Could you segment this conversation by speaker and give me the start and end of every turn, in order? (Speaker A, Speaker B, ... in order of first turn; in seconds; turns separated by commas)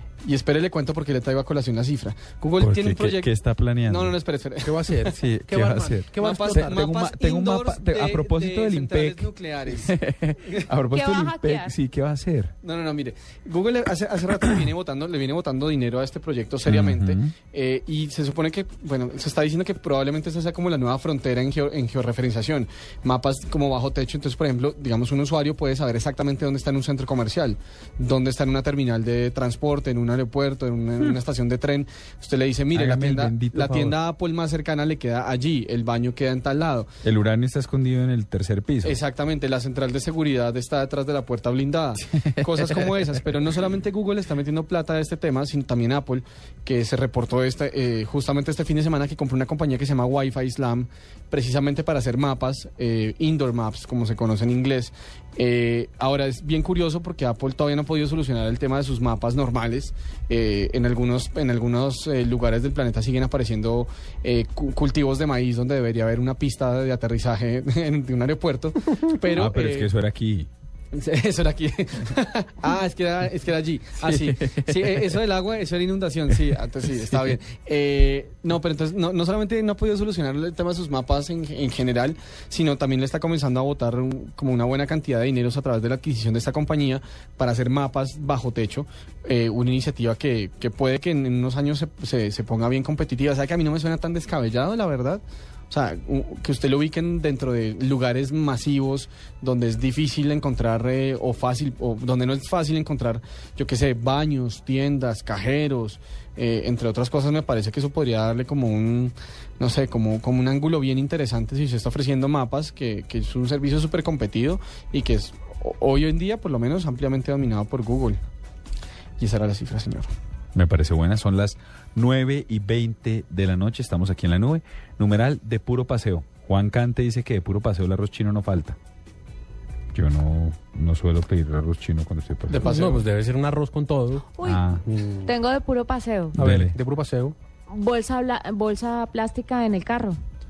Speaker A: 0.2-3.3, Speaker B: 2.6-4.2, Speaker A: 3.9-4.9, Speaker C: 4.7-6.9, Speaker B: 5.2-12.5, Speaker A: 6.2-9.9, Speaker D: 10.9-11.7, Speaker A: 12.6-36.9, Speaker B: 16.7-17.3, Speaker B: 32.7-34.0, Speaker B: 37.0-39.0, Speaker A: 38.8-69.9, Speaker B: 42.1-42.9, Speaker B: 69.3-70.5, Speaker A: 70.9-118.2, Speaker B: 74.0-75.2, Speaker A: 119.2-120.1, Speaker B: 120.5-128.8, Speaker B: 129.9-132.8, Speaker A: 132.5-133.0, Speaker C: 132.5-135.3, Speaker D: 134.4-134.6, Speaker B: 134.4-134.8, Speaker D: 135.2-136.4, Speaker B: 136.4-136.8, Speaker C: 136.4-137.4, Speaker D: 137.7-140.2